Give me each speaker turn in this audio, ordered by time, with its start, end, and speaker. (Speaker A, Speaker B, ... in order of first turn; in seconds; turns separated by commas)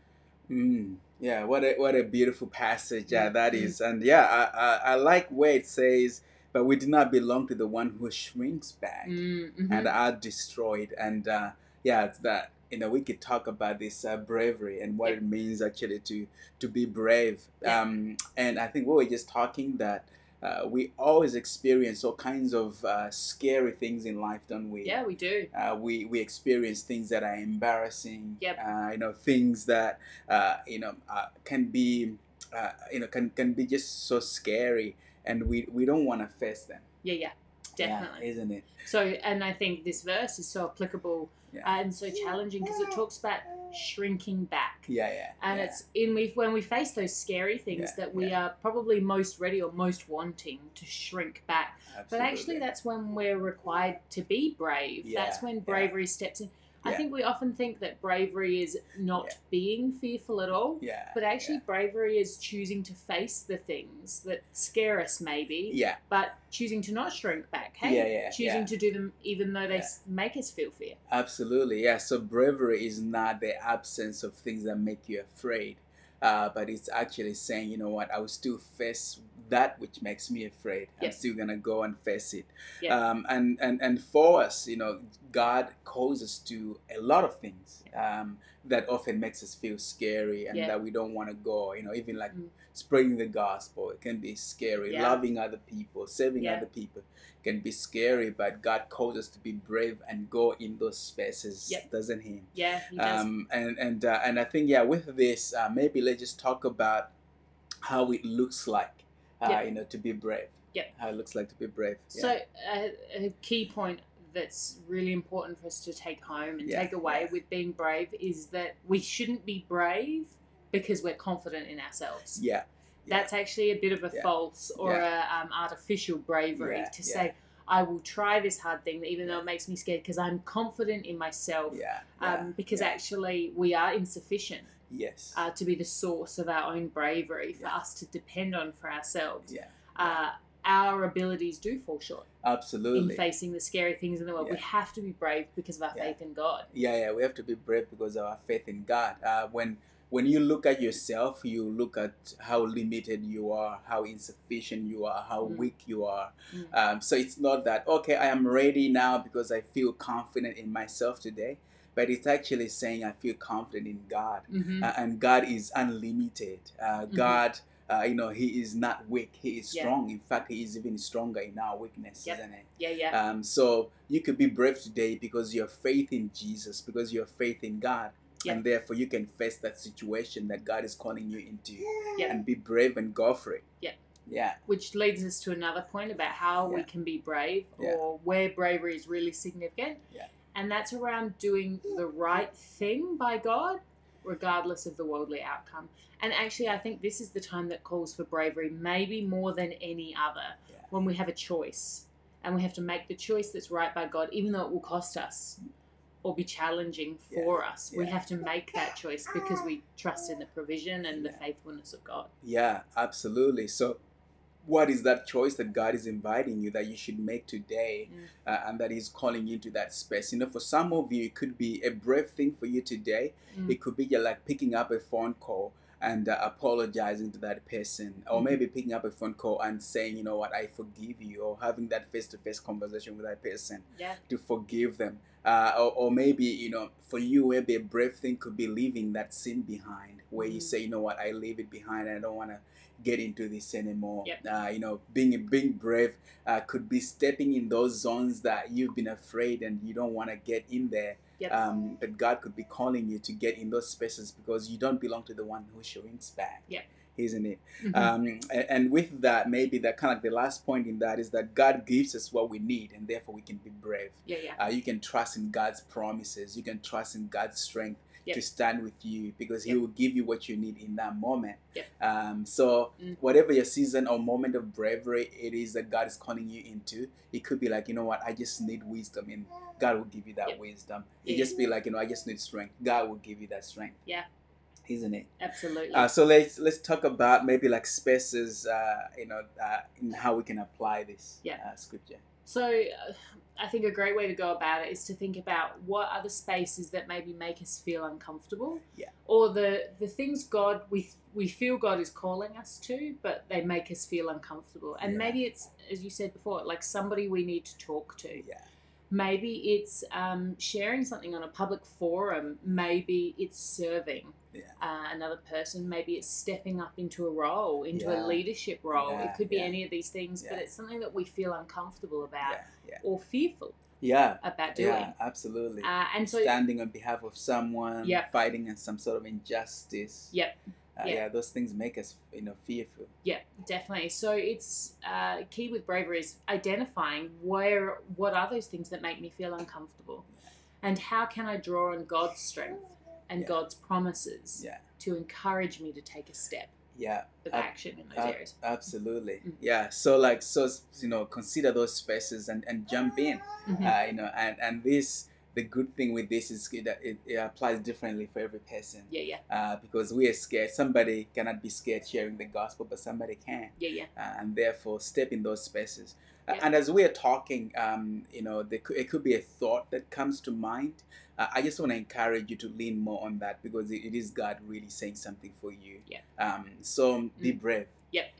Speaker A: 0.5-25.0, Speaker B: 3.1-3.7, Speaker B: 9.0-9.9, Speaker B: 24.8-25.5, Speaker A: 25.5-36.9, Speaker B: 37.0-38.2, Speaker A: 37.8-38.8, Speaker B: 38.8-44.9, Speaker A: 44.9-45.8, Speaker B: 45.4-71.0, Speaker A: 47.7-48.3, Speaker A: 51.9-52.6, Speaker A: 55.0-55.9, Speaker A: 60.8-61.6, Speaker A: 65.7-66.0, Speaker A: 67.8-68.7, Speaker A: 71.1-107.1, Speaker B: 94.9-95.2, Speaker B: 96.4-96.6, Speaker B: 102.5-103.3, Speaker A: 107.8-112.3, Speaker B: 112.1-122.4, Speaker A: 116.6-117.4, Speaker A: 122.3-123.3, Speaker B: 123.1-134.7, Speaker A: 124.1-125.0, Speaker A: 126.5-127.3, Speaker A: 131.7-133.0, Speaker A: 134.9-135.4, Speaker B: 135.3-142.3, Speaker A: 139.5-140.2, Speaker A: 142.4-143.2, Speaker B: 142.9-146.7, Speaker A: 146.7-183.6, Speaker B: 155.4-155.7, Speaker B: 164.5-164.9, Speaker B: 167.1-167.4, Speaker B: 172.2-173.2, Speaker A: 184.3-184.6, Speaker B: 184.7-190.0, Speaker B: 190.5-205.6, Speaker B: 206.2-212.3, Speaker A: 207.3-208.2, Speaker A: 211.1-211.4, Speaker A: 212.4-214.0, Speaker A: 214.6-284.0, Speaker B: 240.4-240.7, Speaker B: 257.8-258.1, Speaker B: 264.2-264.6, Speaker B: 281.2-281.5, Speaker A: 284.9-285.3, Speaker B: 285.4-286.1, Speaker A: 285.9-292.2, Speaker B: 292.4-308.4, Speaker A: 305.0-305.4, Speaker A: 308.4-308.6, Speaker B: 309.1-323.8, Speaker A: 317.9-319.8, Speaker A: 322.4-323.0, Speaker A: 324.0-330.3, Speaker B: 324.4-325.1, Speaker B: 325.8-326.5, Speaker B: 328.0-328.3, Speaker B: 330.3-331.2, Speaker A: 331.0-333.1, Speaker B: 333.2-340.2, Speaker B: 340.8-346.7, Speaker A: 344.6-344.8, Speaker A: 346.9-377.9, Speaker B: 347.4-348.5, Speaker B: 353.6-353.9, Speaker B: 359.1-359.4, Speaker B: 363.8-364.1